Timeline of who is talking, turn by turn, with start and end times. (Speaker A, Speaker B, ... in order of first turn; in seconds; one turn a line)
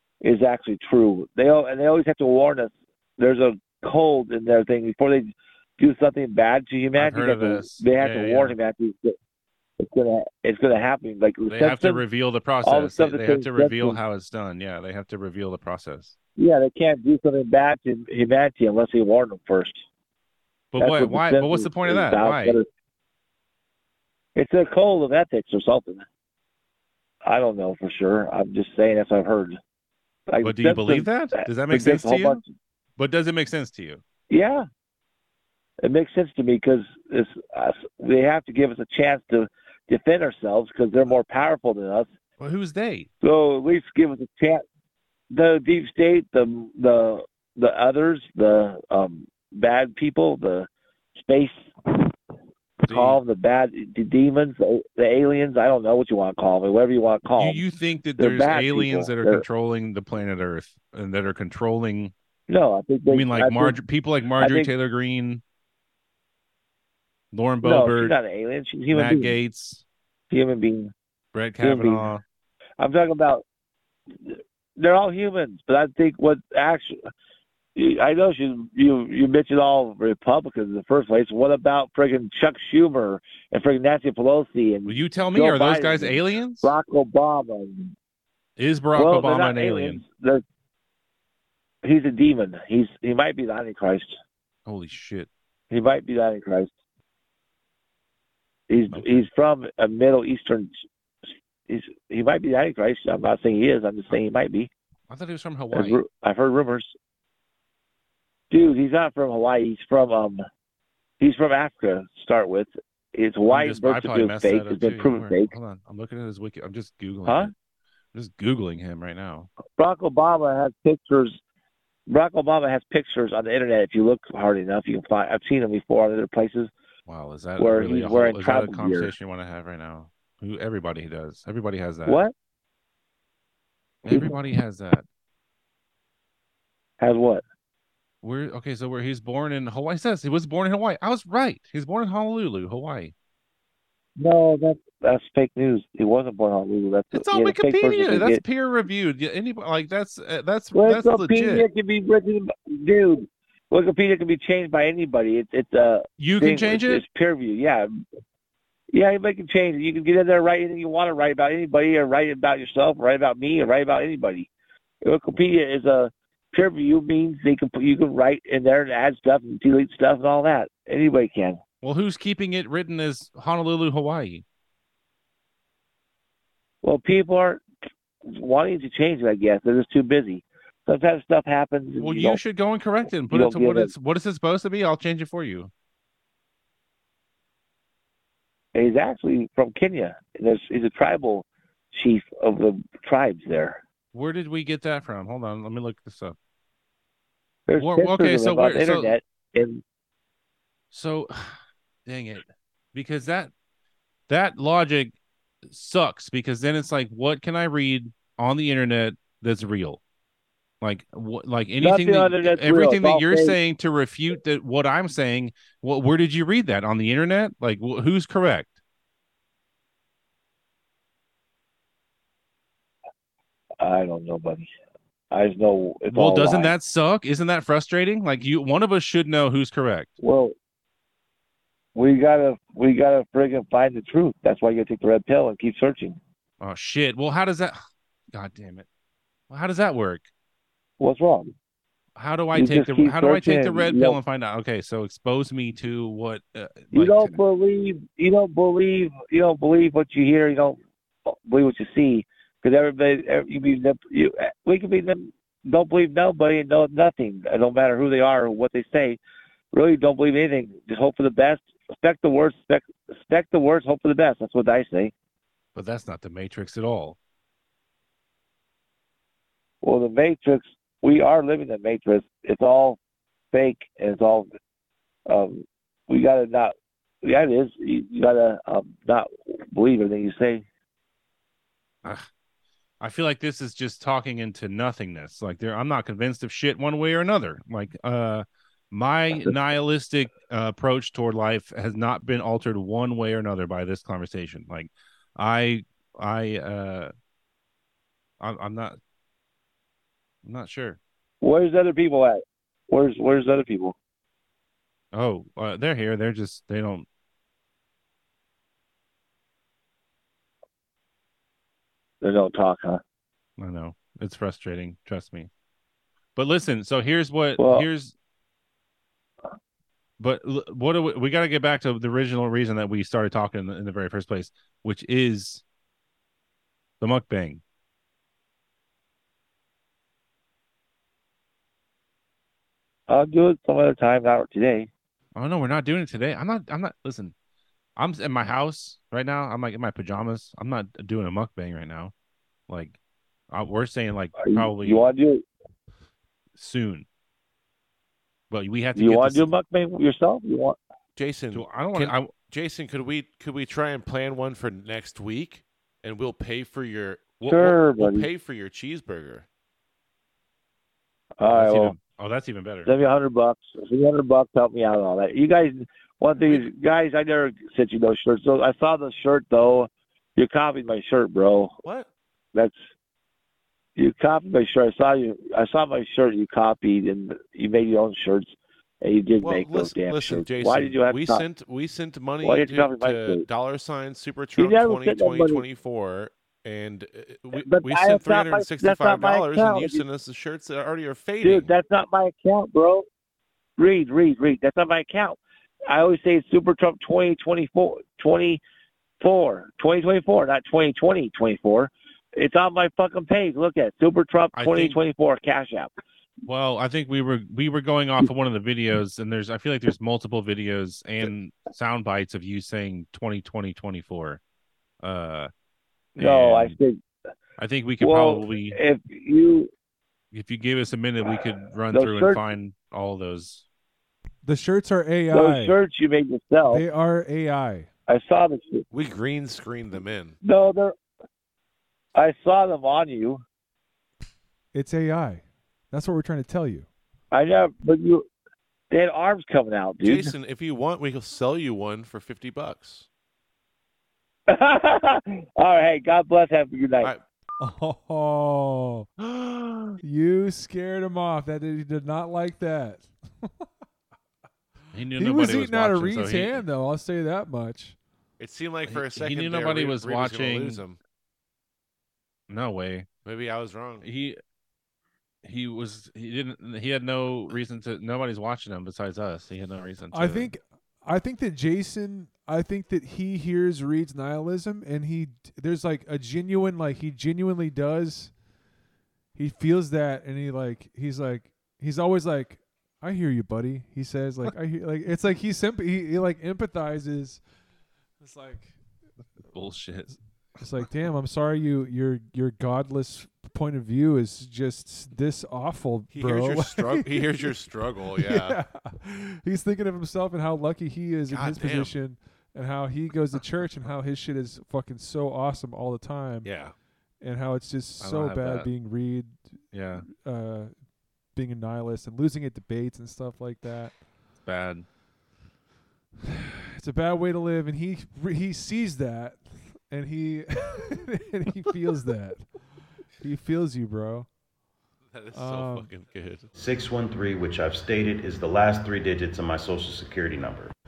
Speaker A: 0.2-9.2
Speaker B: 7.0-8.6
Speaker A: 9.8-12.0
Speaker B: 11.5-16.1
Speaker A: 12.6-14.0
Speaker A: 16.4-19.8
Speaker B: 20.7-22.6
Speaker A: 20.8-22.7
Speaker A: 24.4-26.0
Speaker A: 27.2-29.6
Speaker A: 30.3-32.4
Speaker B: 30.4-32.4
Speaker B: 33.0-34.0
Speaker A: 34.3-34.6
Speaker A: 35.8-42.1
Speaker B: 42.4-43.1
Speaker A: 43.2-44.6
Speaker A: 45.3-52.1
Speaker A: 52.8-57.6
Speaker B: 52.9-53.2
Speaker B: 57.4-62.1
Speaker A: 58.2-59.4
Speaker A: 62.5-63.8
Speaker B: 63.1-65.4
Speaker A: 64.4-64.7
Speaker B: 67.3-68.2
Speaker A: 67.6-69.3
Speaker B: 68.9-69.8
Speaker A: 70.3-70.9
Speaker B: 71.3-72.2
Speaker A: 71.6-72.1
Speaker A: 72.8-73.4
Speaker A: 74.3-77.0
Speaker A: 77.8-87.9
Speaker B: 84.9-86.7
Speaker B: 88.6-90.0
Speaker A: 89.0-90.4
Speaker A: 91.8-94.2
Speaker B: 94.7-95.3
Speaker A: 95.7-96.7
Speaker A: 98.7-100.7
Speaker B: 98.9-99.2
Speaker A: 101.7-104.7
Speaker B: 105.1-106.0
Speaker A: 105.7-106.9
Speaker A: 108.5-110.4
Speaker A: 111.2-115.5
Speaker B: 113.5-117.5
Speaker A: 117.3-117.5
Speaker B: 118.1-119.5
Speaker A: 119.8-121.4
Speaker A: 122.1-126.7
Speaker B: 127.1-132.2
Speaker A: 127.6-129.1
Speaker A: 132.1-132.3
Speaker B: 134.1-135.1
Speaker A: 134.1-134.4
Speaker A: 137.0-137.4
Speaker B: 138.2-143.1
Speaker A: 144.2-148.4
Speaker B: 147.1-151.7
Speaker A: 150.7-157.9
Speaker B: 156.2-157.0
Speaker A: 158.9-164.5
Speaker A: 165.0-171.6
Speaker B: 171.8-174.4
Speaker A: 176.8-177.6
Speaker A: 178.3-182.4
Speaker B: 182.0-185.7
Speaker A: 183.3-183.9
Speaker A: 188.8-193.8
Speaker B: 194.1-196.4
Speaker A: 197.7-199.8
Speaker B: 197.8-199.2
Speaker B: 200.9-203.5
Speaker B: 204.3-205.2
Speaker B: 205.7-210.0
Speaker B: 210.8-218.8
Speaker A: 211.8-213.6
Speaker A: 223.8-224.7
Speaker A: 225.3-226.7
Speaker B: 226.1-230.1
Speaker A: 230.2-230.5
Speaker A: 231.9-236.2
Speaker B: 236.6-237.8
Speaker B: 238.3-238.9
Speaker B: 239.5-240.3
Speaker A: 241.0-241.5
Speaker B: 242.2-247.4
Speaker A: 242.6-244.2
Speaker A: 246.9-259.2
Speaker A: 259.7-265.1
Speaker B: 265.8-267.2
Speaker A: 269.8-273.0
Speaker A: 273.5-274.5
Speaker A: 275.3-280.6
Speaker B: 283.0-297.1
Speaker B: 298.4-299.0
Speaker B: 300.4-301.0
Speaker A: 301.4-303.9
Speaker B: 305.1-307.1
Speaker A: 312.2-313.0
Speaker B: 313.6-315.5
Speaker B: 316.4-318.1
Speaker A: 317.6-317.9
Speaker B: 320.2-325.6
Speaker B: 327.0-327.6
Speaker A: 333.1-334.9
Speaker B: 335.4-337.3
Speaker B: 338.0-342.1
Speaker B: 342.7-343.0
Speaker B: 343.5-345.1
Speaker A: 344.4-345.4
Speaker B: 346.6-347.1
Speaker B: 348.5-349.5
Speaker A: 349.0-350.8
Speaker C: 351.2-359.5
Speaker B: 351.5-352.3
Speaker A: 357.4-358.3
Speaker A: 361.4-362.0
Speaker B: 361.4-362.9
Speaker A: 362.9-371.8
Speaker C: 371.8-372.1
Speaker A: 374.0-381.4
Speaker C: 379.4-391.7
Speaker A: 382.4-383.4
Speaker A: 384.6-385.6
Speaker A: 387.6-390.0
Speaker A: 391.4-393.1
Speaker A: 393.8-398.6
Speaker A: 399.2-405.9
Speaker B: 404.5-405.0
Speaker B: 406.5-414.4
Speaker B: 415.0-415.5
Speaker B: 416.2-416.8
Speaker A: 416.2-417.0
Speaker B: 417.6-418.8
Speaker A: 418.0-419.7
Speaker B: 420.3-423.6
Speaker A: 421.9-422.4
Speaker D: 424.4-425.8
Speaker A: 425.3-426.8
Speaker D: 426.7-427.9
Speaker A: 428.1-428.9
Speaker C: 428.9-430.4
Speaker A: 430.4-430.9
Speaker A: 432.1-433.4
Speaker D: 434.7-436.9
Speaker A: 437.3-438.3
Speaker A: 438.9-440.3
Speaker C: 440.0-443.1
Speaker A: 444.5-447.1
Speaker D: 447.6-449.1
Speaker C: 449.2-450.0
Speaker D: 450.0-453.7
Speaker B: 454.9-456.6
Speaker D: 455.2-458.0
Speaker C: 458.4-461.0
Speaker B: 458.9-460.8
Speaker B: 462.5-463.1
Speaker C: 463.2-464.1
Speaker B: 464.0-464.4
Speaker B: 465.4-470.5
Speaker D: 470.1-478.3
Speaker D: 479.4-487.4
Speaker D: 488.2-488.8
Speaker B: 489.5-490.1
Speaker D: 490.6-497.6
Speaker C: 496.1-498.6
Speaker D: 498.1-506.5
Speaker C: 501.3-502.0
Speaker C: 506.4-506.8
Speaker D: 507.2-510.7
Speaker B: 508.0-508.7
Speaker B: 509.7-510.1
Speaker D: 511.3-514.0
Speaker B: 514.4-514.9
Speaker D: 516.7-522.5
Speaker D: 523.2-524.3
Speaker C: 525.1-526.5
Speaker D: 525.3-525.9
Speaker E: 526.6-530.7